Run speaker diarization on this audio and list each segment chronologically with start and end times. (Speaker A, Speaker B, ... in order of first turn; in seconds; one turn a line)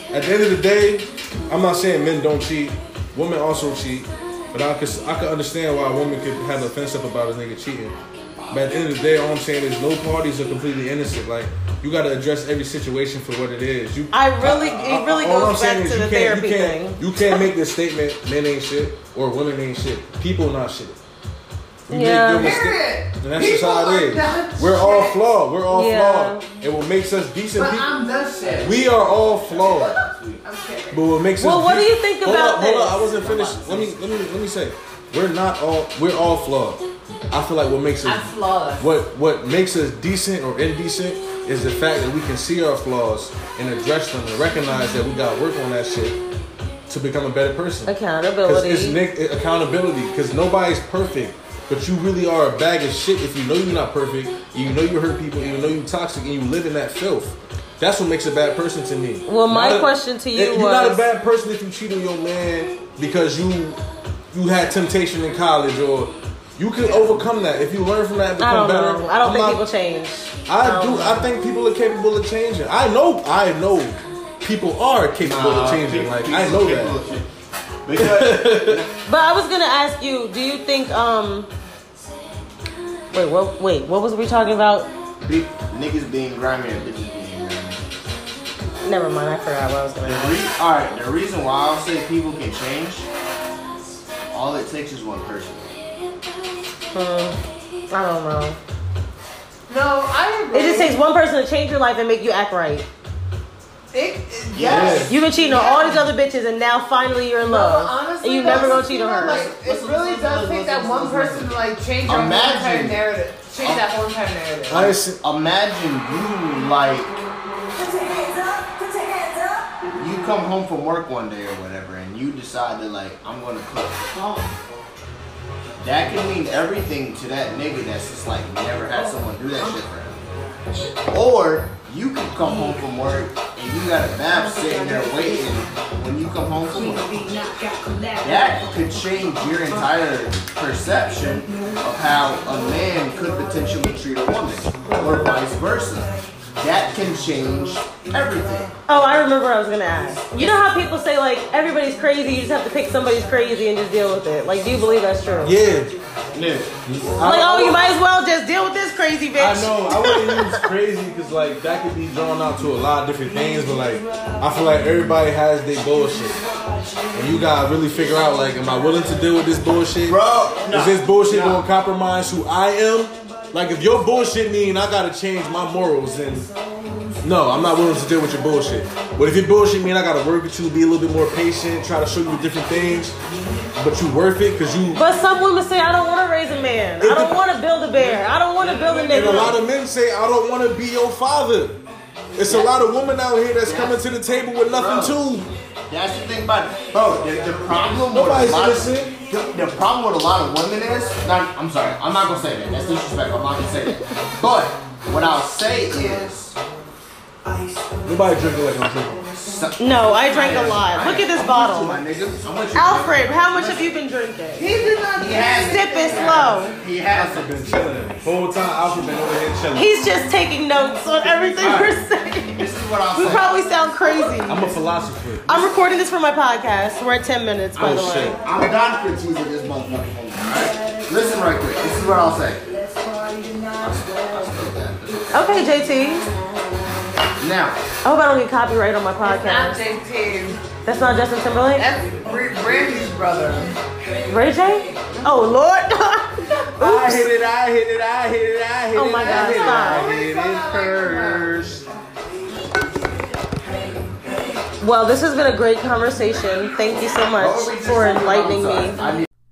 Speaker A: 0.1-8.0
Speaker A: 8.5-21.0
Speaker B: 14.1-17.3
Speaker A: 21.9-27.9
Speaker B: 21.9-22.4
Speaker C: 22.4-25.2
Speaker B: 25.7-26.4
Speaker C: 27.5-28.8
Speaker A: 28.6-29.9
Speaker D: 29.2-30.4
Speaker C: 29.5-31.1
Speaker A: 30.9-46.2
Speaker B: 31.4-33.1
Speaker D: 33.1-34.0
Speaker C: 38.0-38.9
Speaker A: 46.9-47.9
Speaker B: 47.8-49.0
Speaker A: 48.4-63.8
Speaker B: 59.2-61.0
Speaker A: 64.3-69.6
Speaker B: 68.4-71.3
Speaker A: 70.4-76.9
Speaker D: 75.2-77.3
Speaker D: 77.8-78.9
Speaker A: 78.0-78.8
Speaker B: 79.1-81.5
Speaker B: 83.1-84.9
Speaker D: 85.2-87.8
Speaker B: 88.8-90.3
Speaker D: 90.0-93.1
Speaker D: 94.3-95.7
Speaker B: 96.9-98.6
Speaker C: 99.7-101.0
Speaker B: 100.5-102.9
Speaker C: 103.9-106.1
Speaker D: 104.5-105.1
Speaker A: 104.6-105.1
Speaker B: 105.1-109.5
Speaker C: 107.4-114.9
Speaker D: 108.4-113.0
Speaker D: 113.6-113.9
Speaker A: 114.7-115.2
Speaker D: 114.8-117.2
Speaker C: 117.8-118.8
Speaker D: 119.9-124.5
Speaker D: 125.8-130.2
Speaker D: 131.1-137.3
Speaker C: 137.5-138.0
Speaker D: 138.2-148.7
Speaker B: 148.9-155.5
Speaker A: 155.4-156.0
Speaker D: 156.3-156.7
Speaker A: 156.8-157.9
Speaker B: 157.2-160.6
Speaker A: 159.3-166.4
Speaker A: 167.1-176.5
Speaker D: 170.1-171.6
Speaker A: 177.2-183.2
Speaker A: 183.8-185.0
Speaker B: 184.9-189.6
Speaker A: 187.0-188.2
Speaker A: 189.0-191.8
Speaker A: 192.3-195.5
Speaker D: 193.6-194.0
Speaker D: 194.7-195.2
Speaker D: 195.9-206.6
Speaker A: 198.1-199.2
Speaker A: 208.0-209.3
Speaker D: 209.3-213.9
Speaker B: 209.8-212.0
Speaker C: 210.3-210.8
Speaker B: 212.7-214.7
Speaker C: 214.6-216.8
Speaker D: 215.2-217.7
Speaker B: 215.6-216.8
Speaker A: 217.1-219.9
Speaker B: 219.7-224.6
Speaker A: 221.6-221.9
Speaker D: 222.5-223.5
Speaker A: 224.4-225.7
Speaker B: 225.4-228.4
Speaker D: 227.8-232.6
Speaker A: 227.8-228.4
Speaker D: 233.8-235.6
Speaker B: 235.3-236.2
Speaker D: 237.4-237.8
Speaker B: 238.0-239.8
Speaker C: 239.2-240.7
Speaker B: 240.8-241.9
Speaker C: 241.8-243.7
Speaker B: 244.3-247.3
Speaker A: 246.8-251.8
Speaker B: 248.9-250.1
Speaker C: 249.2-251.5
Speaker B: 254.8-259.0
Speaker D: 257.4-259.2